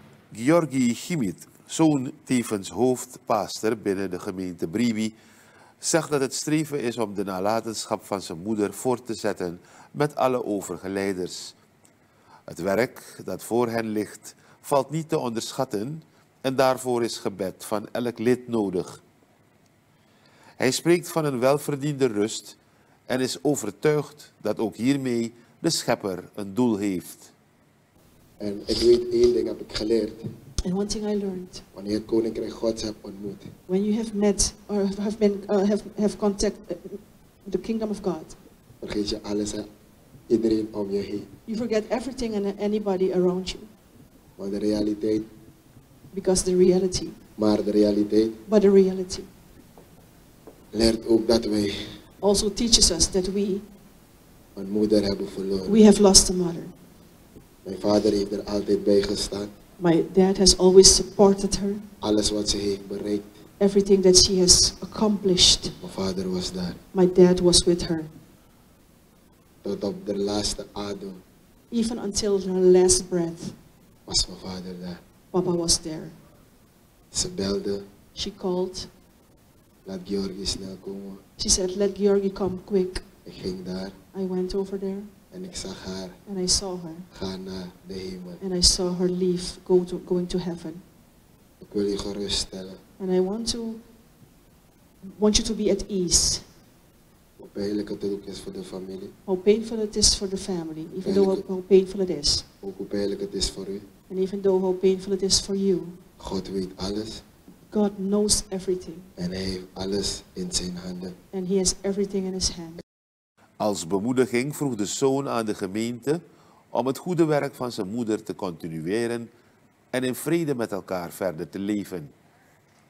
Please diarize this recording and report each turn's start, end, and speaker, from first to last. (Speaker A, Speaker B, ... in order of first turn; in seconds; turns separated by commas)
Speaker A: 0.3-5.1, Speaker A: 5.8-11.6, Speaker A: 12.5-19.0, Speaker A: 20.6-22.6, Speaker A: 23.1-27.3, Speaker B: 28.4-30.3, Speaker C: 30.6-31.6, Speaker B: 31.7-33.5, Speaker C: 33.7-38.4, Speaker B: 38.8-39.7, Speaker B: 40.3-41.3, Speaker C: 41.5-43.7, Speaker B: 44.4-45.3, Speaker C: 46.1-47.2, Speaker B: 47.4-48.4, Speaker C: 48.5-49.3, Speaker B: 50.7-52.0, Speaker C: 52.2-53.7, Speaker B: 54.5-55.8, Speaker C: 55.7-56.7, Speaker B: 57.6-59.5, Speaker C: 59.8-61.8, Speaker B: 62.0-63.4, Speaker C: 63.6-65.8, Speaker B: 65.8-66.8, Speaker C: 66.9-68.1, Speaker B: 69.6-71.2, Speaker C: 71.7-73.6, Speaker B: 74.1-75.0, Speaker C: 75.3-76.2, Speaker B: 77.1-77.9, Speaker C: 78.1-78.9, Speaker B: 79.8-81.2, Speaker C: 81.4-83.0, Speaker B: 83.2-84.0, Speaker C: 84.1-85.1, Speaker B: 85.3-86.2, Speaker C: 86.2-87.1, Speaker B: 87.1-88.4, Speaker C: 88.4-90.8, Speaker B: 91.6-92.8, Speaker C: 93.0-93.8, Speaker C: 95.0-96.5, Speaker B: 97.4-99.1, Speaker C: 99.2-102.5, Speaker B: 101.0-101.4, Speaker B: 102.6-103.9, Speaker C: 104.1-106.0, Speaker B: 106.2-107.2, Speaker C: 107.7-109.1, Speaker B: 109.2-111.2, Speaker C: 111.3-112.8, Speaker A: 113.6-119.3, Speaker A: 119.9-122.1